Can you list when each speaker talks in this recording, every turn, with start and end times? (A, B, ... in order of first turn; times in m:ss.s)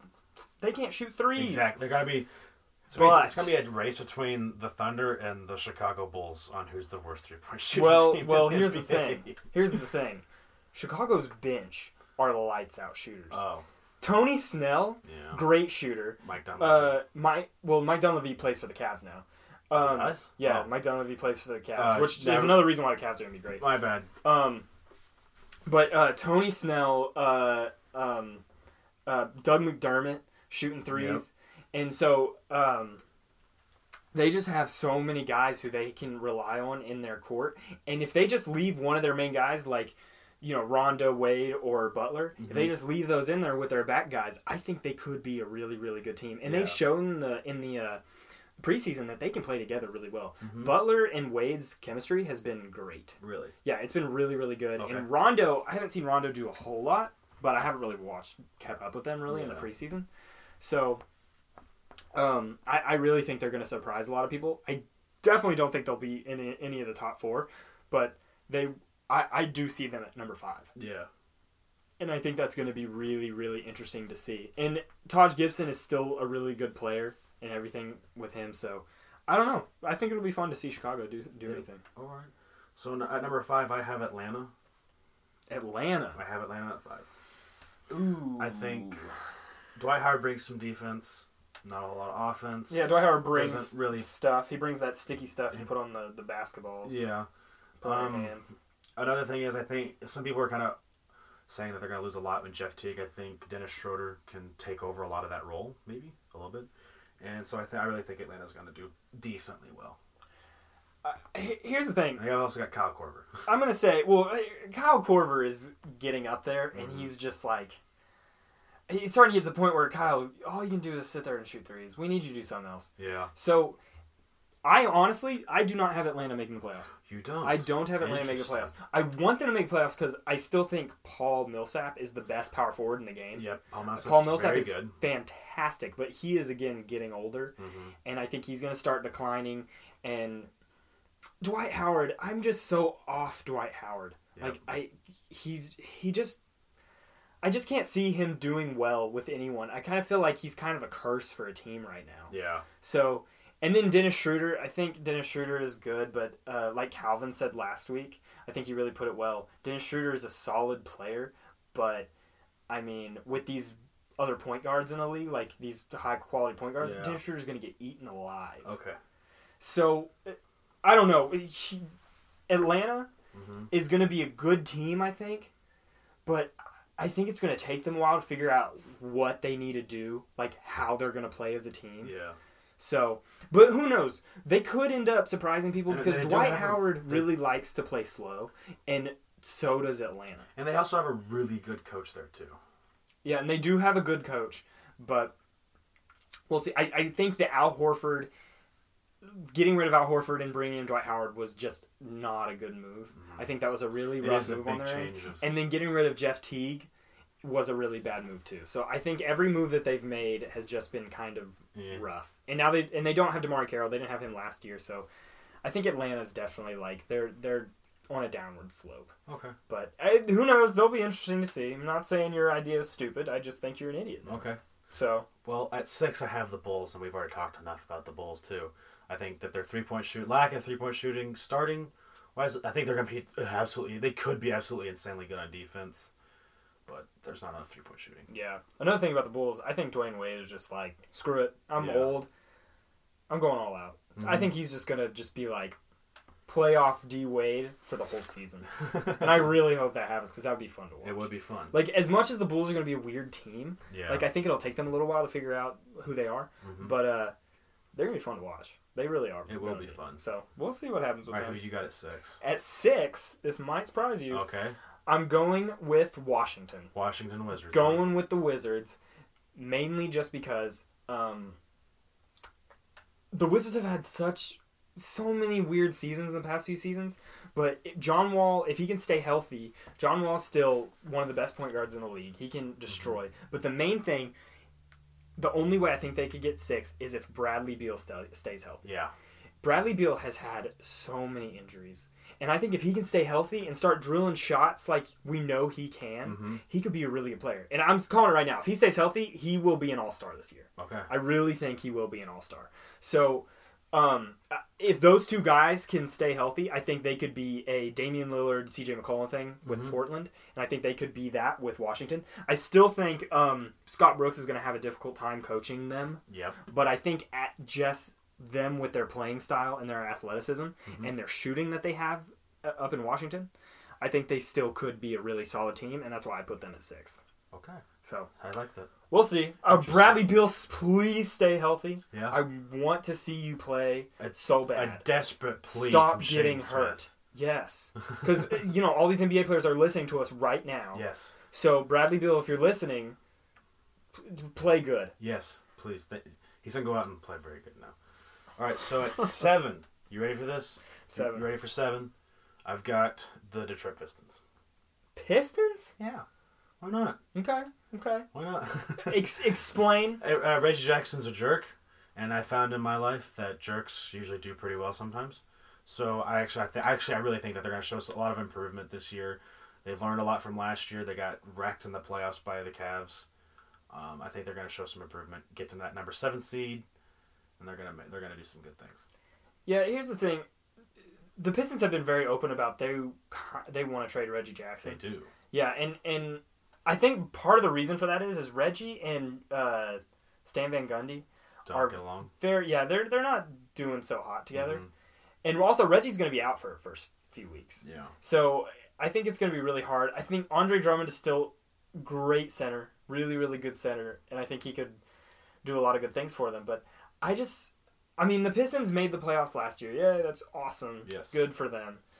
0:00.4-0:01.8 A
0:01.3-0:02.3 B
0:02.9-0:09.4 B
0:02.9-0:03.6 A
0:07.7-0:13.4 A
0:13.3-0:13.6 B
0:14.0-0:24.6 A
0:15.0-0:15.6 B
0:16.2-0:17.0 B
0:19.7-0:20.7 B
0:21.7-0:22.8 B
0:23.6-0:24.1 B
0:25.6-0:28.4 A
0:29.0-0:33.0 A
0:30.9-0:31.2 B
0:34.1-0:48.0 A
0:42.4-0:42.8 B
0:46.4-0:46.8 B
0:48.6-1:00.0 A
0:50.4-0:50.9 B
0:53.2-0:53.5 B
0:54.8-0:55.1 B
0:59.3-0:59.7 B
1:00.6-1:01.0 A
1:02.1-1:10.7 A
1:10.8-1:11.1 B
1:12.0-1:21.8 A
1:21.4-1:24.5 B
1:25.5-1:26.2 A
1:26.1-1:27.1 B
1:27.9-1:29.1 A
1:28.4-1:29.0 B
1:29.8-1:34.1 B
1:32.7-1:37.0 A
1:36.8-1:37.3 B
1:37.8-1:38.5 A
1:37.8-1:38.4 B
1:39.0-1:40.8 B
1:41.5-1:46.7 B
1:47.2-1:50.0 B
1:51.0-1:52.3 A
1:52.1-1:53.3 B
1:53.4-1:57.8 A
1:56.7-1:57.1 B
1:58.9-2:03.8 A
2:03.0-2:03.3 B
2:04.6-2:06.9 A
2:07.1-2:08.7 B
2:07.4-2:13.5 A
2:13.3-2:14.9 B
2:14.0-2:20.5 A
2:17.6-2:17.9 B
2:21.4-2:26.4 A
2:24.4-2:24.8 B
2:27.4-2:42.1 A
2:32.3-2:32.6 B
2:42.7-2:48.7 A
2:46.8-2:47.2 B
2:48.6-2:49.0 B
2:49.6-2:51.9 A
2:52.5-2:53.1 A
2:53.3-2:53.7 B
2:53.7-2:55.5 A
2:56.2-3:02.1 A
3:02.0-3:02.4 B
3:02.8-3:10.5 A
3:05.9-3:07.4 B
3:10.6-3:12.6 B
3:13.2-3:15.3 A
3:16.5-3:18.3 A
3:19.2-3:26.9 A
3:23.2-3:23.4 B
3:24.1-3:25.5 B
3:27.4-3:35.0 A
3:31.7-3:32.0 B
3:35.6-3:39.1 A
3:39.3-3:39.5 B
3:39.7-3:45.3 A
3:44.2-3:44.6 B
3:45.4-3:56.1 B
3:56.8-3:58.3 B
3:58.3-4:02.3 A
4:01.8-4:02.2 B
4:03.3-4:05.8 A
4:04.2-4:04.6 B
4:06.5-4:17.3 A
4:08.9-4:09.4 B
4:11.0-4:11.7 B
4:13.9-4:14.3 B
4:16.6-4:17.0 B
4:17.9-4:21.6 A
4:19.5-4:20.2 B
4:21.3-4:22.4 B
4:22.4-4:24.4 A
4:24.3-4:24.7 B
4:25.0-4:26.9 A
4:26.9-4:28.1 B
4:27.7-4:29.0 A
4:29.5-4:31.6 A
4:33.3-4:44.3 A
4:45.4-4:48.8 A
4:48.8-4:49.1 B
4:49.6-5:23.5 A
4:56.2-4:56.6 B
5:00.8-5:01.1 B
5:09.6-5:10.0 B
5:16.3-5:16.6 B
5:20.9-5:21.1 B
5:24.0-5:27.2 A
5:27.5-5:27.8 B
5:28.0-5:28.3 A
5:28.4-5:28.9 B
5:29.1-5:35.1 A
5:29.6-5:30.4 B
5:32.1-5:32.4 B
5:34.2-5:37.1 B
5:35.6-5:43.2 A
5:40.9-5:41.3 B
5:44.1-5:45.1 A
5:45.2-5:47.9 B
5:48.6-5:52.1 B
5:51.1-5:51.5 A
5:52.6-5:54.4 B
5:55.2-5:55.9 A
5:56.0-5:56.2 B
5:56.8-5:57.2 B
5:57.3-5:58.3 A
5:58.3-5:59.3 B
5:59.0-6:00.2 A
6:00.2-6:13.2 B
6:13.9-6:16.8 B
6:17.6-6:19.0 B
6:19.6-6:20.4 A
6:21.4-6:25.0 A
6:24.8-6:25.3 B
6:25.5-6:34.8 A
6:31.6-6:32.3 B
6:34.5-6:34.9 B
6:35.4-6:45.0 A
6:37.8-6:38.1 B
6:45.6-6:52.0 A
6:51.0-6:51.4 B